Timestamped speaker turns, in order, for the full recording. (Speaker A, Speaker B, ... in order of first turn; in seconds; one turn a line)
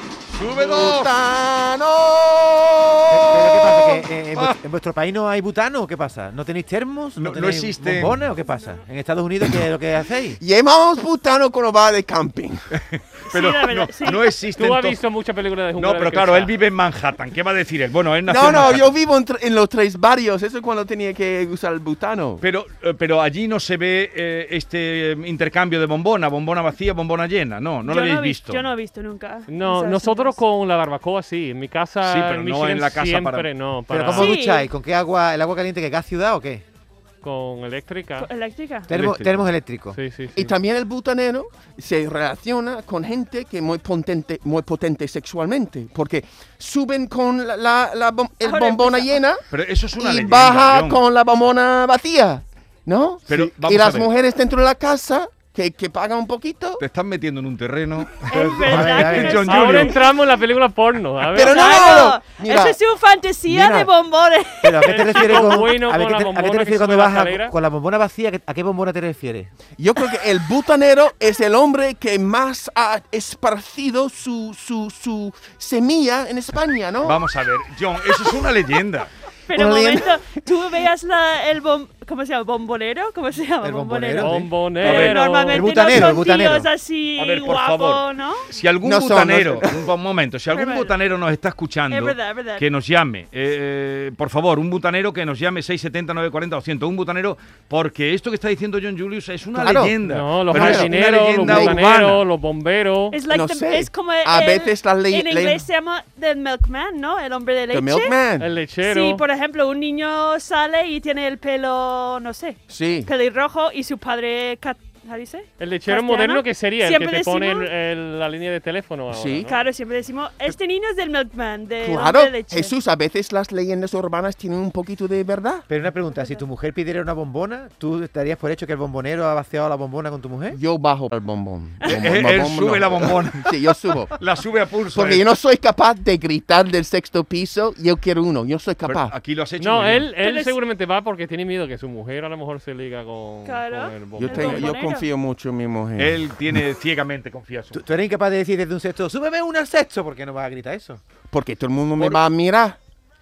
Speaker A: 0.3-1.1
Speaker B: 0.4-4.0
Speaker C: 3.1-10.4
Speaker A: 7.2-8.2
Speaker B: 10.4-12.6
Speaker A: 12.7-15.0
Speaker D: 13.3-14.3
Speaker E: 14.6-16.5
Speaker A: 15.8-18.9
Speaker B: 18.2-22.4
Speaker A: 22.4-28.6
Speaker D: 27.8-30.4
Speaker E: 29.5-34.4
Speaker A: 32.0-33.5
Speaker C: 33.9-36.6
Speaker D: 34.1-34.7
Speaker E: 37.2-38.3
Speaker D: 38.2-38.9
Speaker C: 38.9-40.0
Speaker A: 38.9-39.5
Speaker E: 39.9-40.5
Speaker B: 40.4-49.4
Speaker D: 48.4-49.2
Speaker A: 49.5-51.0
Speaker B: 50.0-56.8
Speaker A: 53.3-54.1
Speaker A: 56.8-60.0
Speaker D: 58.3-60.0
Speaker C: 58.4-59.5
Speaker E: 59.4-62.0
Speaker B: 61.3-62.8
Speaker D: 61.4-65.6
Speaker C: 63.5-63.9
Speaker C: 64.6-69.5
Speaker E: 64.8-67.5
Speaker B: 69.8-77.2
Speaker A: 77.0-79.1
Speaker B: 78.0-78.4
Speaker D: 79.5-88.5
Speaker B: 79.5-80.4
Speaker C: 83.6-84.5
Speaker E: 84.2-85.8
Speaker A: 84.8-85.2
Speaker C: 85.5-86.7
Speaker A: 87.2-102.2
Speaker B: 88.8-89.8
Speaker D: 90.5-90.9
Speaker D: 91.9-92.6
Speaker C: 99.5-100.0
Speaker E: 100.0-103.2
Speaker B: 100.5-101.7
Speaker D: 103.1-108.2
Speaker B: 103.3-105.6
Speaker B: 107.7-108.5
Speaker E: 108.4-109.2
Speaker D: 108.8-117.7
Speaker B: 112.7-113.1
Speaker E: 115.6-119.7
Speaker B: 119.1-119.5
Speaker D: 119.5-122.7
Speaker B: 121.8-125.7
Speaker C: 125.7-130.6
Speaker B: 130.5-134.1
Speaker A: 131.9-133.6
Speaker A: 134.2-135.2
Speaker B: 134.9-139.1
Speaker A: 138.9-140.1
Speaker E: 139.6-144.7
Speaker D: 140.2-140.6
Speaker D: 143.4-145.1
Speaker B: 144.2-146.3
Speaker A: 146.0-147.8
Speaker C: 147.7-151.0
Speaker B: 151.3-152.8